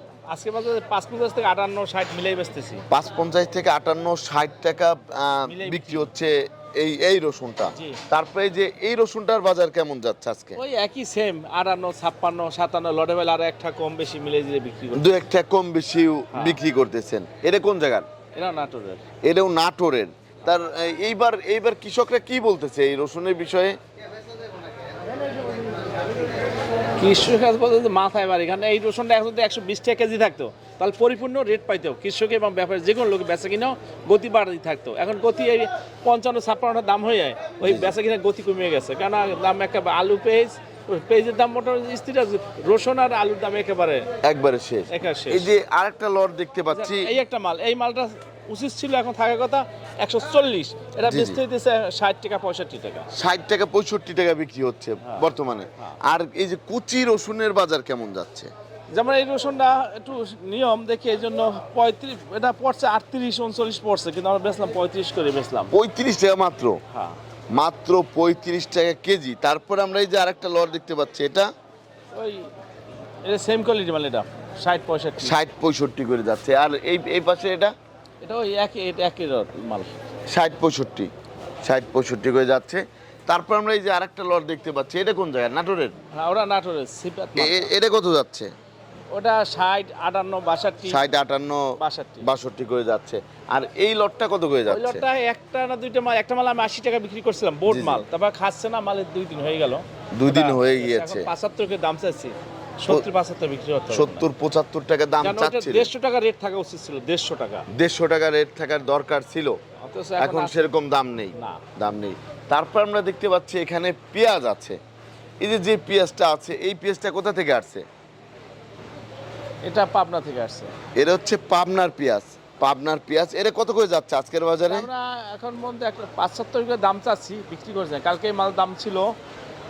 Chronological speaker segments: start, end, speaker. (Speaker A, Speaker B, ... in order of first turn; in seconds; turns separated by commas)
Speaker A: 0.3-2.8, Speaker B: 2.9-10.6, Speaker A: 5.5-6.1, Speaker A: 7.7-8.0, Speaker A: 10.6-15.1, Speaker B: 14.9-18.1, Speaker A: 16.3-16.6, Speaker A: 18.3-19.0, Speaker B: 19.2-23.8, Speaker A: 27.0-44.1, Speaker B: 37.6-37.9, Speaker B: 44.2-47.1, Speaker A: 44.9-45.5, Speaker A: 46.7-53.1, Speaker B: 51.1-51.4, Speaker B: 53.1-58.5, Speaker A: 55.0-56.0, Speaker A: 58.9-65.7, Speaker B: 65.7-66.8, Speaker A: 66.9-67.2, Speaker B: 67.5-71.5, Speaker A: 72.1-72.5, Speaker A: 73.2-75.3, Speaker B: 75.2-77.7, Speaker A: 78.2-79.9, Speaker B: 80.3-81.1, Speaker B: 81.6-85.9, Speaker A: 86.1-87.7, Speaker B: 87.4-88.5, Speaker A: 89.1-91.0, Speaker B: 90.9-91.7, Speaker A: 91.8-92.3, Speaker B: 92.2-95.0, Speaker A: 94.7-104.3, Speaker B: 97.7-98.0, Speaker B: 100.2-101.3, Speaker B: 103.9-105.9, Speaker A: 105.2-107.7, Speaker B: 107.8-109.6, Speaker A: 109.8-110.7, Speaker B: 110.2-114.8, Speaker A: 111.4-111.6, Speaker B: 115.4-117.8, Speaker A: 119.6-120.7, Speaker B: 121.0-124.9, Speaker A: 124.7-129.1